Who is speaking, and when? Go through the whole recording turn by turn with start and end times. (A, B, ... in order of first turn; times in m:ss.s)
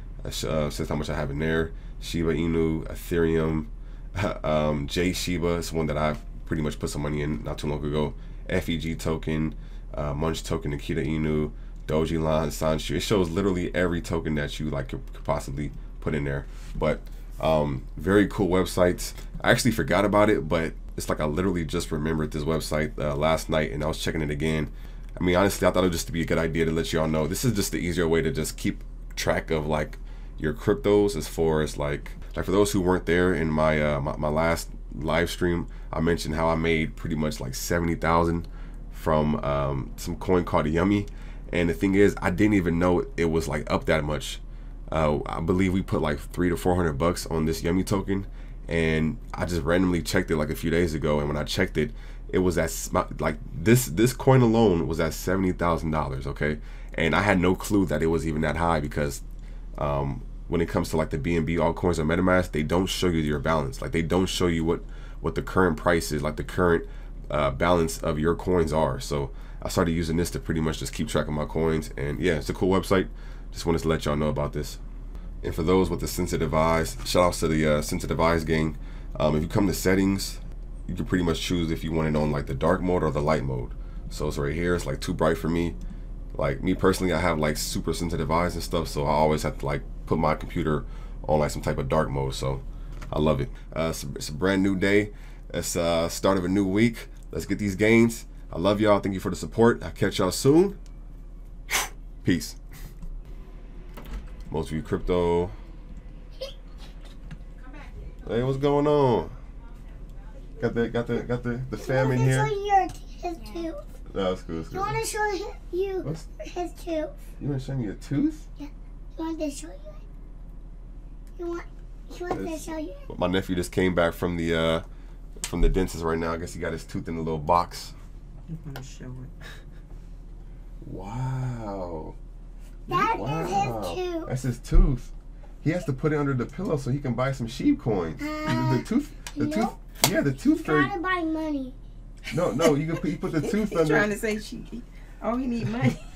0:00.2-0:59.2 A
0:59.8-1:14.8 A
1:15.4-1:25.8 A
1:26.3-1:40.8 A
1:41.7-1:42.6 A
1:44.5-1:45.6 A
1:48.2-1:49.3 A
1:50.6-1:52.5 A
1:51.8-1:53.8 B
1:54.1-1:55.0 A
1:54.7-1:57.1 B
1:57.4-1:58.5 A
1:58.6-2:00.0 B
2:01.4-2:03.0 B
2:02.3-2:04.8 A
2:05.4-2:07.9 A
2:08.5-2:09.3 C
2:10.8-2:12.2 A
2:12.9-2:14.3 B
2:13.0-2:20.9 A
2:18.2-2:18.8 B
2:19.4-2:19.7 B
2:20.5-2:21.7 B
2:22.3-2:24.1 A
2:23.4-2:26.0 C